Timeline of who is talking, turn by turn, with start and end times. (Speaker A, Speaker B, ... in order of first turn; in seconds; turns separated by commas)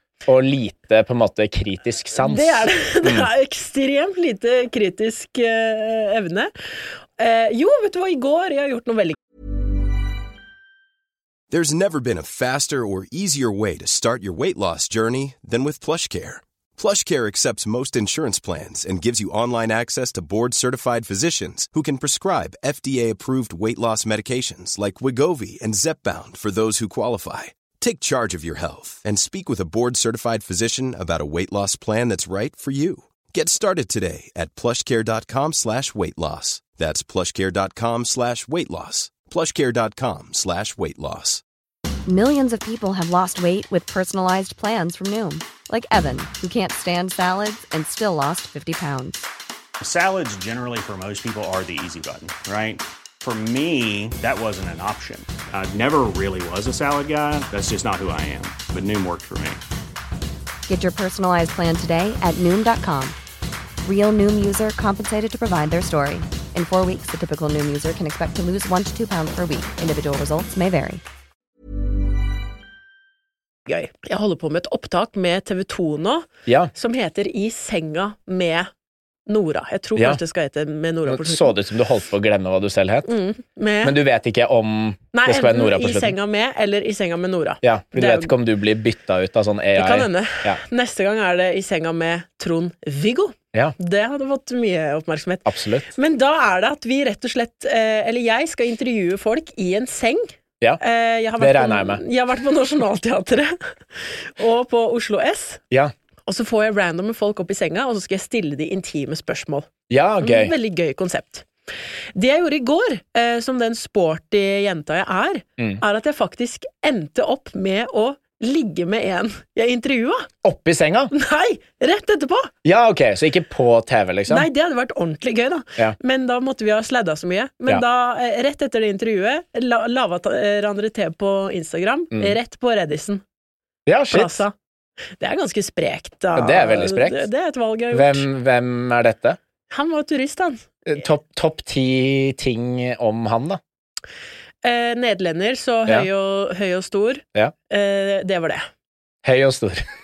Speaker A: 0.2-3.3, Speaker B: 2.2-6.5, Speaker B: 7.2-9.2, Speaker C: 11.5-41.4, Speaker D: 42.1-49.3, Speaker E: 49.8-59.6, Speaker D: 60.7-63.2, Speaker D: 63.8-71.0, Speaker B: 73.7-78.7, Speaker B: 79.3-81.5, Speaker A: 80.0-80.2, Speaker A: 81.1-83.1, Speaker B: 83.0-84.0, Speaker A: 83.8-86.1, Speaker B: 85.1-88.3, Speaker A: 87.6-90.6, Speaker B: 89.8-105.6, Speaker A: 95.5-95.8, Speaker A: 101.4-102.0, Speaker B: 106.3-109.7, Speaker A: 109.9-110.5, Speaker B: 110.2-111.5, Speaker B: 112.1-120.3, Speaker A: 120.4-121.1, Speaker B: 121.1-122.5, Speaker A: 122.6-124.5, Speaker B: 124.3-133.2, Speaker A: 133.8-134.4, Speaker B: 134.1-134.5, Speaker B: 135.2-138.3, Speaker A: 136.3-137.3, Speaker A: 137.9-139.4, Speaker B: 139.7-140.6, Speaker A: 140.8-143.6, Speaker B: 144.6-148.7, Speaker A: 149.2-149.8